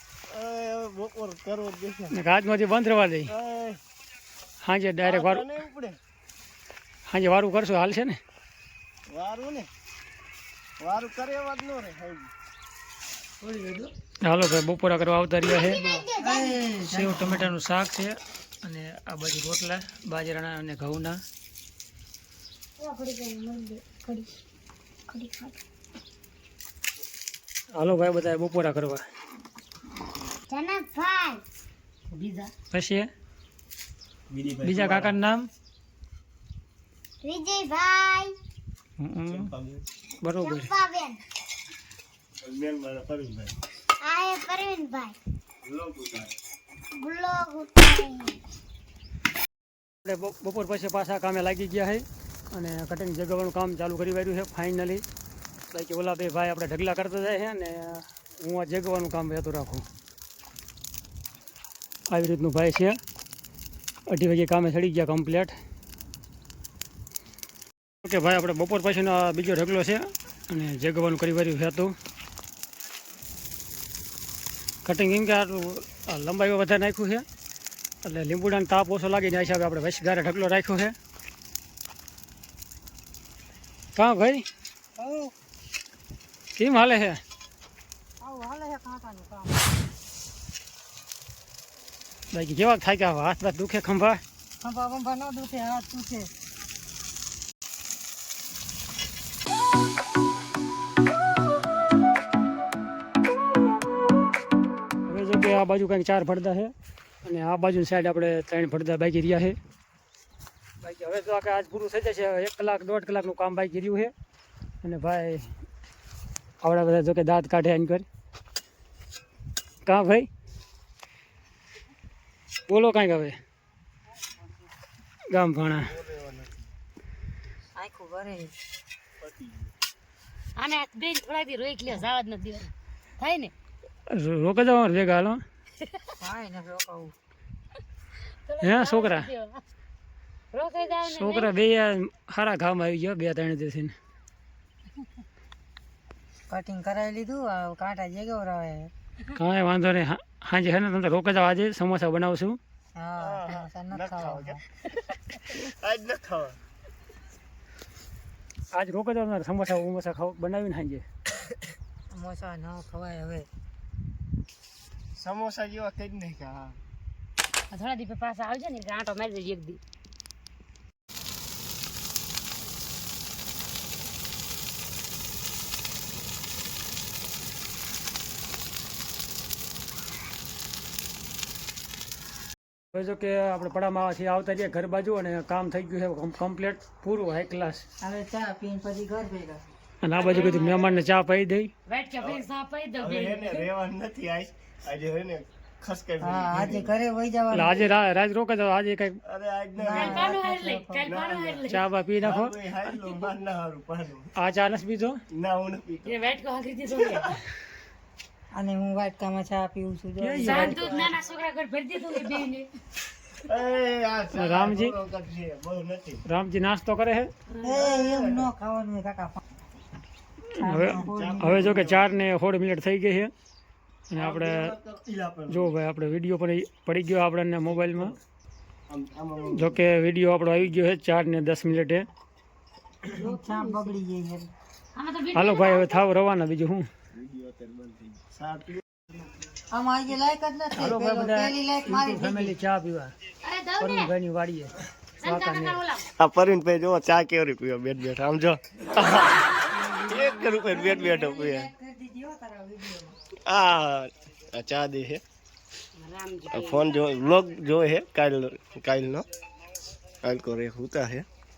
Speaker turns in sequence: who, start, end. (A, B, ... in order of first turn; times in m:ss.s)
0:00.3-0:02.2 A
0:02.1-0:03.3 B
0:03.3-0:03.8 A
0:04.6-0:05.4 B
0:05.0-0:06.0 A
0:07.1-0:08.2 B
0:09.1-0:09.7 A
0:10.8-0:12.3 A
0:13.4-0:13.9 C
0:14.2-0:15.8 B
0:15.4-0:16.6 D
0:15.8-0:17.5 C
0:16.8-0:21.2 B
0:22.8-0:24.3 D
0:25.1-0:25.6 D
0:27.7-0:29.0 B
0:30.5-0:31.4 D
0:32.1-0:32.5 E
0:32.7-0:33.1 B
0:34.3-0:35.1 A
0:34.6-0:35.5 B
0:37.2-0:38.3 D
0:39.0-0:39.5 B
0:39.3-0:39.8 A
0:40.2-0:40.7 B
0:40.4-0:41.2 D
0:42.4-0:43.5 A
0:44.0-0:45.2 D
0:45.6-0:46.3 A
0:46.9-0:48.4 D
0:50.0-0:55.0 B
0:55.7-0:59.8 B
1:02.1-1:03.0 B
1:04.1-1:05.5 B
1:08.0-1:11.9 B
1:14.8-1:17.2 B
1:18.0-1:20.9 B
1:24.0-1:24.4 B
1:25.0-1:25.3 C
1:26.6-1:27.2 B
1:28.2-1:29.7 C
1:32.3-1:34.2 B
1:34.6-1:36.3 C
1:45.1-1:46.7 B
1:47.2-1:49.5 B
1:50.8-1:54.1 B
1:54.8-1:55.5 B
1:56.6-1:58.0 B
1:59.8-2:00.3 B
2:02.7-2:03.3 B
2:05.3-2:05.9 B
2:05.8-2:06.7 A
2:07.8-2:08.5 C
2:09.2-2:09.7 A
2:10.6-2:13.5 E
2:14.1-2:15.4 B
2:16.2-2:17.1 C
2:18.4-2:19.6 E
2:18.6-2:19.3 B
2:20.5-2:21.5 E
2:21.1-2:23.9 B
2:26.5-2:28.9 C
2:29.3-2:32.6 B
2:32.9-2:34.6 C
2:33.2-2:34.6 A
2:35.4-2:36.6 A
2:38.7-2:41.0 B
2:42.1-2:43.5 C
2:45.2-2:46.8 A
2:47.7-2:49.8 E
3:02.9-3:07.8 B
3:08.0-3:09.6 C
3:10.0-3:11.7 B
3:10.1-3:11.0 A
3:10.2-3:10.8 E
3:11.9-3:13.7 E
3:13.0-3:16.9 A
3:16.2-3:17.9 C
3:17.5-3:19.2 B
3:19.2-3:20.4 A
3:19.8-3:21.1 C
3:19.9-3:21.8 E
3:21.0-3:21.6 A
3:21.7-3:22.6 B
3:22.2-3:24.3 A
3:24.3-3:25.2 B
3:25.3-3:26.2 A
3:26.0-3:27.4 E
3:27.0-3:27.3 A
3:28.5-3:31.1 C
3:30.2-3:31.0 B
3:30.4-3:32.7 E
3:33.4-3:36.2 A
3:34.3-3:35.0 B
3:36.2-3:37.3 B
3:37.6-3:39.4 C
3:37.6-3:38.5 A
3:40.5-3:43.3 B
3:40.6-3:41.8 C
3:41.1-3:42.1 A
3:44.1-3:44.7 B
3:44.1-3:45.7 A
3:45.5-3:48.1 B
3:47.7-3:48.1 A
3:48.9-3:49.8 A
3:49.5-3:52.1 B
3:53.1-3:54.5 C
3:53.2-3:54.0 E
3:54.9-3:56.0 E
3:55.3-3:56.9 B
3:57.1-3:58.8 A
3:59.7-4:02.6 C
4:00.8-4:03.1 B
4:03.4-4:04.1 E
4:03.8-4:05.8 B
4:05.2-4:06.1 E
4:06.2-4:11.7 A
4:09.5-4:11.1 E
4:10.6-4:13.2 C
4:13.4-4:15.2 A
4:16.0-4:17.0 E
4:16.5-4:19.2 A
4:20.2-4:21.2 A